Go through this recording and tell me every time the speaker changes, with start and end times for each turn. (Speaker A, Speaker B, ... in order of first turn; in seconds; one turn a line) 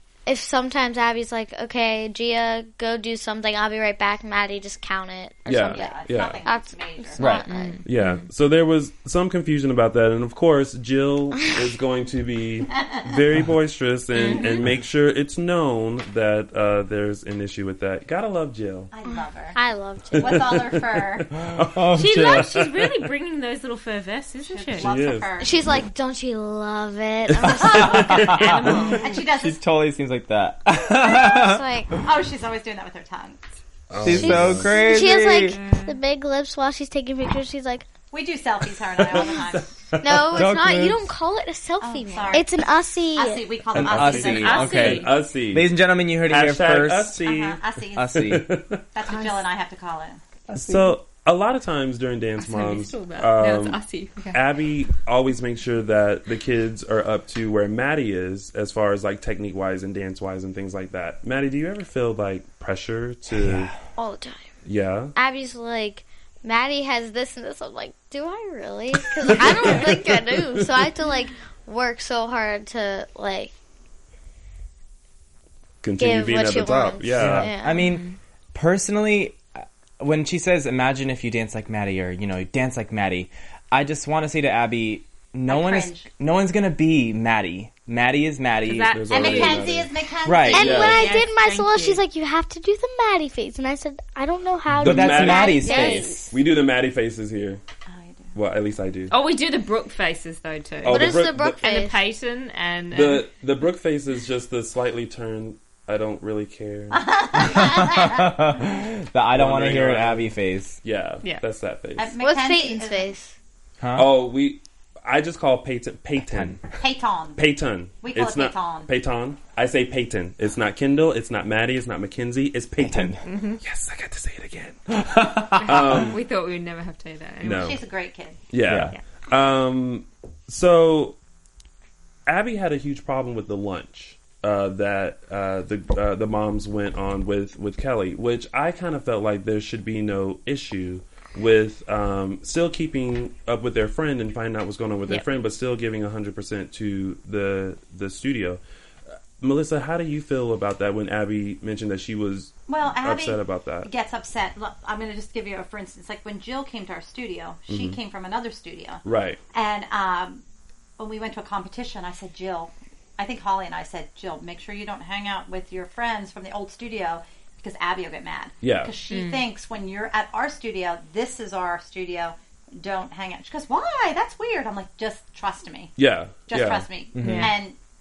Speaker A: 0.2-7.8
Speaker B: 5.5-6.4
Speaker C: 5.7-7.3
Speaker D: 7.2-7.5
Speaker E: 7.5-8.2
Speaker B: 7.8-18.9
Speaker E: 14.2-14.6
Speaker A: 14.3-14.6
Speaker C: 18.9-19.6
Speaker A: 19.5-20.7
Speaker B: 20.1-22.8
Speaker C: 20.2-21.3
Speaker D: 21.6-22.5
Speaker E: 21.9-24.9
Speaker C: 24.4-25.6
Speaker B: 24.8-25.3
Speaker A: 25.4-28.2
Speaker B: 27.4-28.5
Speaker C: 27.6-29.6
Speaker D: 28.1-28.5
Speaker E: 28.4-29.1
Speaker D: 29.3-31.6
Speaker A: 31.0-31.9
Speaker C: 32.0-33.4
Speaker B: 33.9-34.7
Speaker D: 34.0-35.5
Speaker A: 34.1-35.6
Speaker E: 35.5-36.0
Speaker F: 35.8-37.9
Speaker C: 38.1-39.7
Speaker B: 39.1-40.3
Speaker A: 40.0-42.4
Speaker D: 40.3-41.0
Speaker C: 41.8-42.5
Speaker F: 42.3-43.5
Speaker C: 43.1-44.8
Speaker B: 43.7-45.7
Speaker D: 43.7-47.2
Speaker E: 44.4-45.1
Speaker B: 46.2-48.8
Speaker C: 47.2-48.4
Speaker D: 48.0-48.5
Speaker C: 48.9-50.2
Speaker E: 49.1-49.4
Speaker D: 50.5-50.9
Speaker B: 50.5-53.8
Speaker E: 52.4-54.4
Speaker B: 54.3-63.7
Speaker D: 63.3-63.7
Speaker A: 64.0-64.5
Speaker B: 64.6-65.1
Speaker A: 65.1-73.5
Speaker B: 69.2-70.7
Speaker B: 75.8-77.5
Speaker A: 76.0-77.8
Speaker D: 77.2-89.5
Speaker E: 77.7-78.2
Speaker C: 85.5-86.1
Speaker E: 88.7-89.6
Speaker B: 88.9-89.9
Speaker C: 89.1-91.0
Speaker D: 90.2-90.8
Speaker F: 90.5-95.7
Speaker B: 90.5-91.0
Speaker E: 90.7-92.0
Speaker B: 94.7-95.6
Speaker D: 94.8-96.3
Speaker A: 95.5-96.2
Speaker B: 96.3-97.6
Speaker C: 97.9-98.3
Speaker B: 98.3-99.1
Speaker E: 99.1-103.2
Speaker B: 100.8-101.6
Speaker A: 100.8-102.0
Speaker B: 102.9-107.0
Speaker C: 106.9-108.4
Speaker D: 107.5-110.8
Speaker B: 109.3-110.3
Speaker B: 110.8-112.1
Speaker C: 112.0-113.1
Speaker A: 112.2-113.3
Speaker D: 113.8-114.1
Speaker B: 113.9-116.6
Speaker D: 116.2-116.6
Speaker C: 116.8-117.4
Speaker B: 117.4-126.2
Speaker C: 118.0-118.9
Speaker D: 122.8-123.2
Speaker E: 123.2-123.6
Speaker D: 125.0-126.1
Speaker E: 125.6-127.7
Speaker B: 127.4-127.8
Speaker C: 127.4-128.4
Speaker B: 128.5-131.2
Speaker D: 128.6-128.9
Speaker B: 132.2-148.6
Speaker B: 149.4-153.9
Speaker C: 152.7-159.0
Speaker B: 157.7-158.0
Speaker B: 159.0-159.4
Speaker C: 159.5-160.4
Speaker C: 161.0-175.9
Speaker B: 168.6-168.9
Speaker E: 169.1-169.4
Speaker B: 176.0-176.9
Speaker C: 176.5-177.8
Speaker D: 177.1-177.5
Speaker E: 177.2-177.5